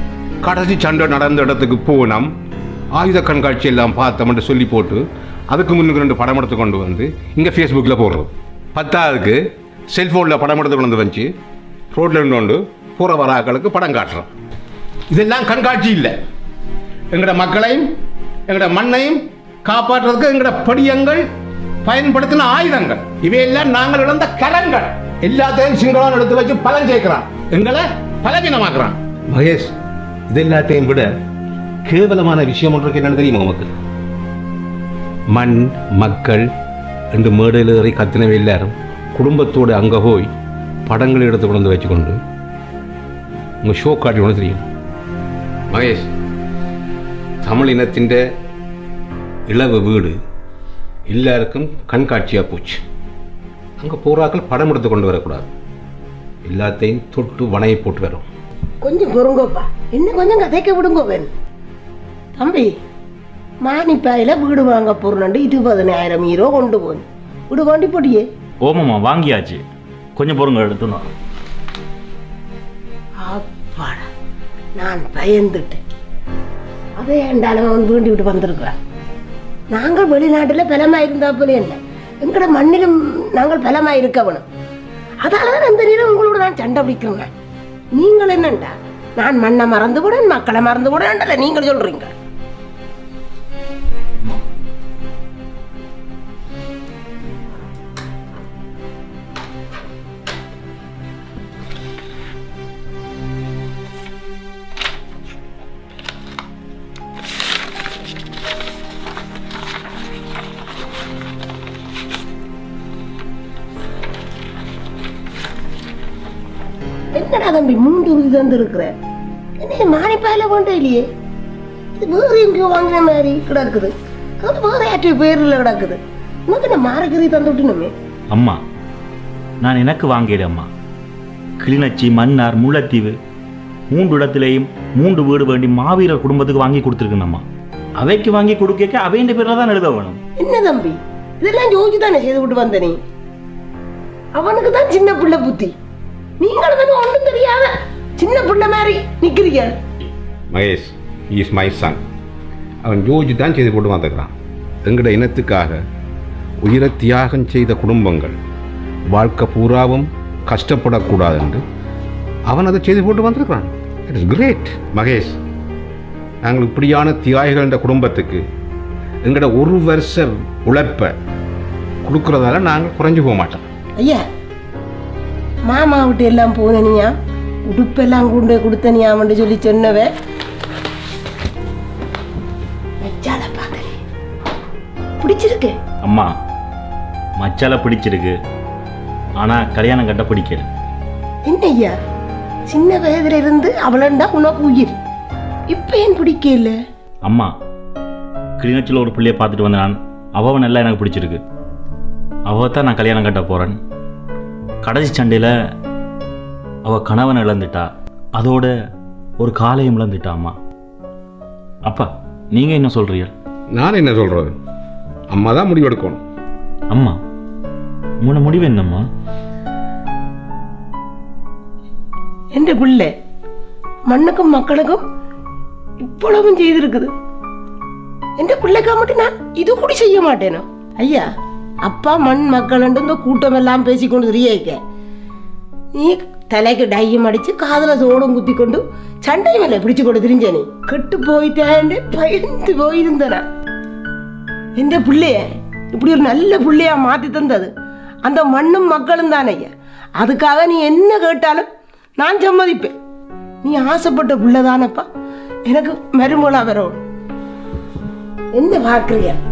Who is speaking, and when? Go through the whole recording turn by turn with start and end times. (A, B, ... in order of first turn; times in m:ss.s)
0:00.4-0:02.3 A
0:02.9-0:11.3 A
0:11.9-0:14.3 A
0:15.1-0:16.1 A
0:17.1-0:17.9 A
0:18.5-0:21.2 A
0:21.8-0:29.7 A
0:30.3-0:31.1 A
0:31.8-0:33.7 A
0:35.3-0:36.4 A
0:37.1-0:40.3 A
0:40.9-0:42.2 A
0:43.6-0:44.6 A
0:45.7-0:46.1 A
0:47.4-0:48.2 A
0:49.5-0:50.2 A
0:51.1-0:52.8 A
0:53.8-0:55.5 A
0:56.4-0:58.3 A
0:58.8-1:01.3 B
1:02.4-1:02.7 B
1:03.6-1:08.2 B
1:08.6-1:09.6 C
1:10.2-1:11.1 C
1:13.2-1:14.1 B
1:14.8-1:15.8 B
1:17.0-1:18.8 B
1:19.7-1:24.4 B
1:25.2-1:27.3 B
1:28.0-1:32.1 B
1:57.2-1:58.9 B
1:59.6-2:01.0 B
2:02.0-2:07.9 B
2:08.3-2:08.6 C
2:09.6-2:10.7 C
2:11.6-2:13.2 C
2:13.9-2:17.4 C
2:18.0-2:20.2 C
2:20.4-2:23.0 B
2:24.4-2:25.7 B
2:26.4-2:29.7 B
2:30.5-2:32.0 A
2:32.8-2:34.3 A
2:34.9-2:35.8 A
2:36.6-2:38.4 A
2:39.1-2:41.6 A
2:42.5-2:45.4 A
2:46.4-2:48.4 A
2:49.2-2:51.1 A
2:52.0-2:53.7 A
2:55.7-2:57.2 B
2:57.7-3:00.1 B
3:03.0-3:04.0 B
3:05.2-3:05.8 B
3:06.0-3:06.3 C
3:07.4-3:08.4 C
3:09.4-3:10.7 C
3:11.5-3:12.0 B
3:12.7-3:15.0 B
3:15.7-3:16.8 B
3:17.3-3:17.5 C
3:18.6-3:21.4 C
3:22.5-3:23.8 C
3:24.8-3:25.5 C
3:26.8-3:28.7 C
3:29.4-3:30.6 C
3:31.9-3:33.3 C
3:33.7-3:34.6 A
3:35.3-3:36.2 A
3:36.9-3:37.2 C
3:38.2-3:39.1 C
3:42.6-3:43.1 B
3:44.1-3:45.0 B
3:46.0-3:47.1 B
3:48.4-3:51.2 B
3:51.8-3:54.8 B
3:56.0-4:03.4 B
4:04.8-4:07.7 B
4:08.2-4:11.7 B
4:12.2-4:12.9 B
4:13.6-4:15.1 B
4:15.7-4:17.0 B
4:18.6-4:19.4 B